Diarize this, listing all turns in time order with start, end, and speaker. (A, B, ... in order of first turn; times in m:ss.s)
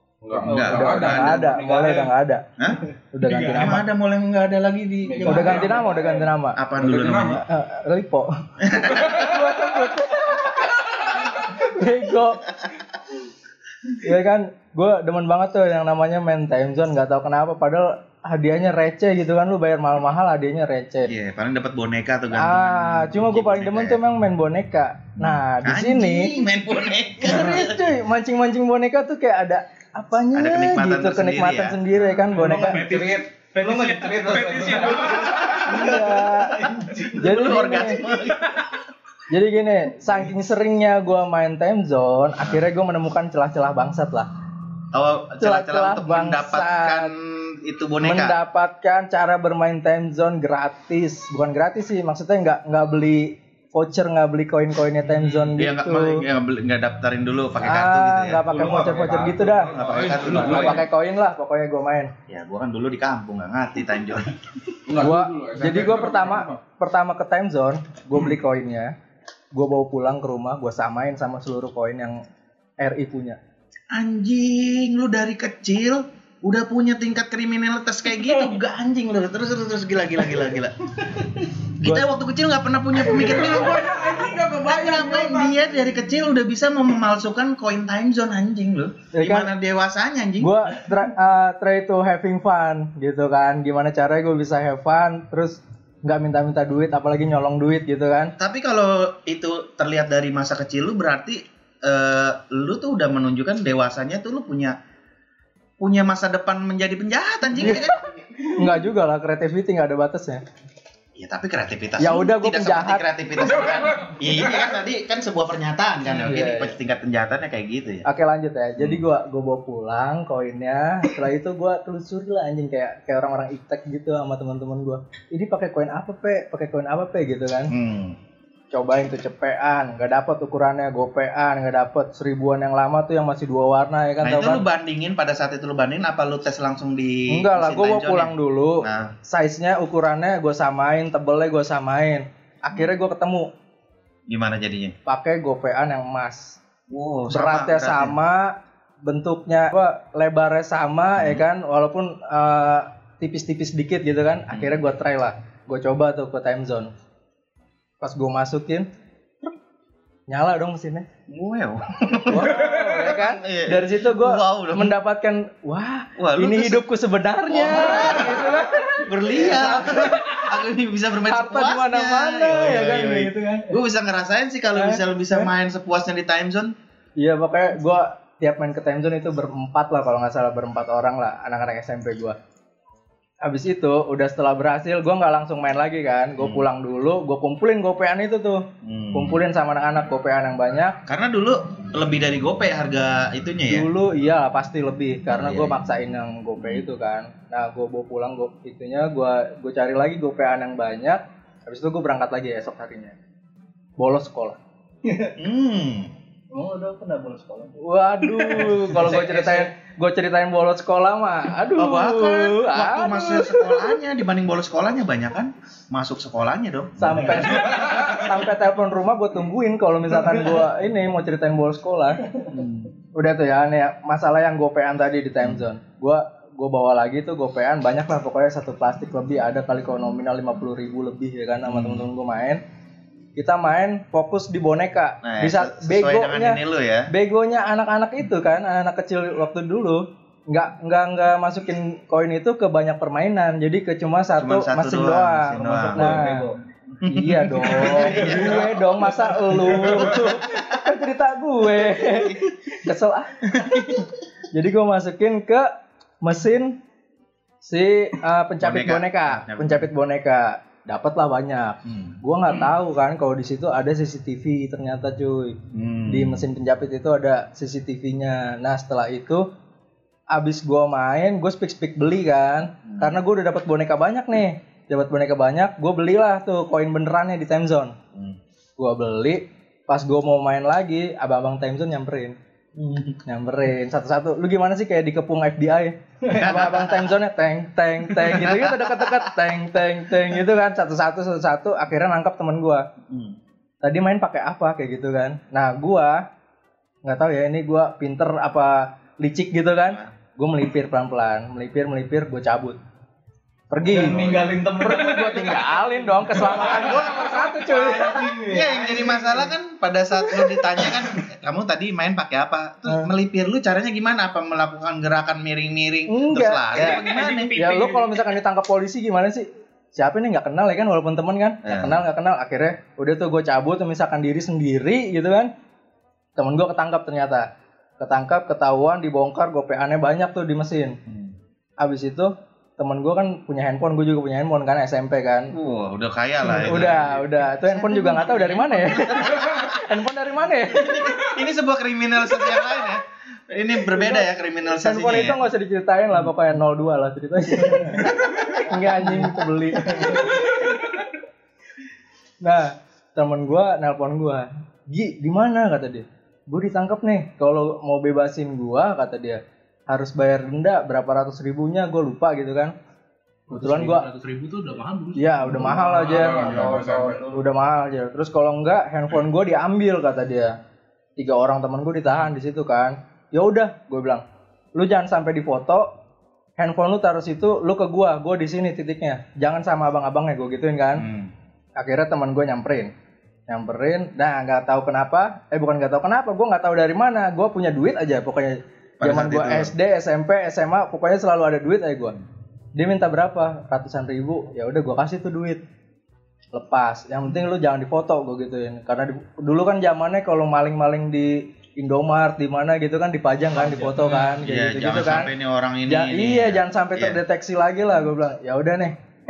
0:00.2-0:01.6 A
0:00.3-0:02.1 B
0:00.4-0:01.1 C
0:00.6-0:02.4 D
0:02.6-0:02.8 C
0:03.1-0:03.9 D
0:03.2-0:03.8 E
0:03.5-0:05.8 C
0:05.0-0:06.2 B
0:05.2-0:06.2 A
0:05.2-0:06.6 D
0:06.6-0:07.4 C
0:06.8-0:07.4 A
0:07.4-0:12.6 D
0:08.6-0:09.2 C
0:13.9-0:21.1 D
0:21.0-0:24.0 C
0:22.3-0:26.3 D
0:25.2-0:27.9 C
0:27.2-0:32.8 D
0:30.3-0:32.3 C
0:32.3-0:35.6 E
0:32.4-0:37.3 B
0:35.7-0:38.0 D
0:37.2-0:38.7 C
0:39.3-0:44.3 D
0:44.9-0:48.4 C
0:45.4-0:47.1 D
0:48.0-0:56.2 D
0:55.0-0:55.6 E
0:55.6-0:58.4 C
0:57.6-1:02.1 D
0:58.5-1:00.8 B
0:58.6-1:00.8 A
0:59.7-1:00.9 C
1:00.2-1:00.8 E
1:02.3-1:04.4 C
1:04.9-1:06.6 A
1:05.0-1:08.9 D
1:09.5-1:12.2 D
1:12.8-1:13.4 D
1:13.9-1:21.3 C
1:21.8-1:23.9 C
1:23.1-1:25.6 A
1:24.6-1:30.6 C
1:29.1-1:29.5 D
1:30.4-1:38.3 D
1:38.4-1:44.8 C
1:45.8-1:48.2 C
1:47.6-1:47.9 D
1:48.5-1:50.4 D
1:51.2-1:58.1 C
1:52.0-1:53.0 D
1:53.4-1:54.8 A
1:56.1-1:56.7 D
1:58.0-2:07.7 D
1:58.8-1:59.0 C
2:07.7-2:08.2 C
2:08.7-2:14.6 D
2:14.2-2:19.1 C
2:17.3-2:23.5 D
2:24.3-2:25.0 C
2:25.1-2:26.6 D
2:26.9-2:28.2 C
2:27.3-2:36.9 D
2:31.2-2:31.4 C
2:34.5-2:34.8 C
2:38.0-2:38.9 D
2:40.3-2:41.1 D
2:41.3-2:45.0 C
2:42.3-2:50.4 D
2:46.2-2:46.8 C
2:47.5-2:56.7 C
2:51.3-2:53.8 D
2:54.7-2:55.5 D
2:57.2-3:02.4 D
3:03.4-3:11.0 D
3:06.4-3:06.7 C
3:08.8-3:09.4 C
3:11.1-3:13.9 C
3:13.7-3:23.2 D
3:15.3-3:15.8 C
3:16.6-3:16.9 C
3:24.0-3:24.6 D
3:25.0-3:25.4 B
3:25.4-3:26.1 C
3:26.5-3:27.8 B
3:27.8-3:33.9 D
3:28.3-3:29.7 B
3:31.7-3:37.8 C
3:37.0-3:42.2 D
3:37.3-3:37.9 B
3:42.5-3:42.9 C
3:43.1-3:52.6 D
3:51.7-3:52.1 C
3:53.4-3:56.6 D
3:55.2-3:57.1 C
3:57.1-4:06.4 D
4:04.4-4:06.3 C
4:05.8-4:06.6 B
4:07.0-4:08.8 C
4:07.0-4:15.7 D
4:09.8-4:10.6 C
4:12.0-4:12.4 C
4:13.6-4:14.0 C
4:16.2-4:16.8 D
4:17.6-4:29.5 D
4:18.6-4:19.9 C
4:21.8-4:22.2 C
4:25.7-4:26.5 C
4:30.3-4:38.0 D
4:32.9-4:33.2 C
4:38.8-4:42.4 D
4:42.8-4:43.2 C
4:43.3-4:52.9 D
4:46.3-4:47.2 C
4:48.1-4:49.3 C
4:53.1-4:53.4 C
4:53.8-4:56.2 D
4:57.0-5:02.8 D
5:03.7-5:04.2 D
5:03.8-5:09.4 B
5:04.0-5:04.4 C
5:04.8-5:08.5 D
5:08.5-5:17.8 C
5:16.1-5:25.5 D
5:16.8-5:17.9 B
5:21.6-5:22.0 C
5:26.4-5:27.5 D
5:28.0-5:31.0 D
5:31.1-5:31.3 C
5:31.8-5:35.5 D
5:35.5-5:40.0 C
5:36.4-5:41.2 D
5:40.7-5:45.4 C
5:43.9-5:51.0 D
5:52.4-6:02.7 D
6:03.5-6:06.8 E
6:03.5-6:04.0 D
6:05.2-6:06.7 D
6:05.6-6:07.4 B
6:06.0-6:07.3 A
6:07.3-6:10.6 D
6:11.2-6:14.2 D
6:14.8-6:15.9 D
6:16.6-6:21.1 D
6:21.0-6:21.3 C
6:21.8-6:22.9 D
6:23.5-6:32.2 D
6:29.0-6:29.7 C
6:32.8-6:35.6 D
6:36.5-6:45.3 D
6:43.6-6:44.0 B
6:43.9-6:44.4 E
6:44.4-6:47.2 C
6:45.9-6:49.0 D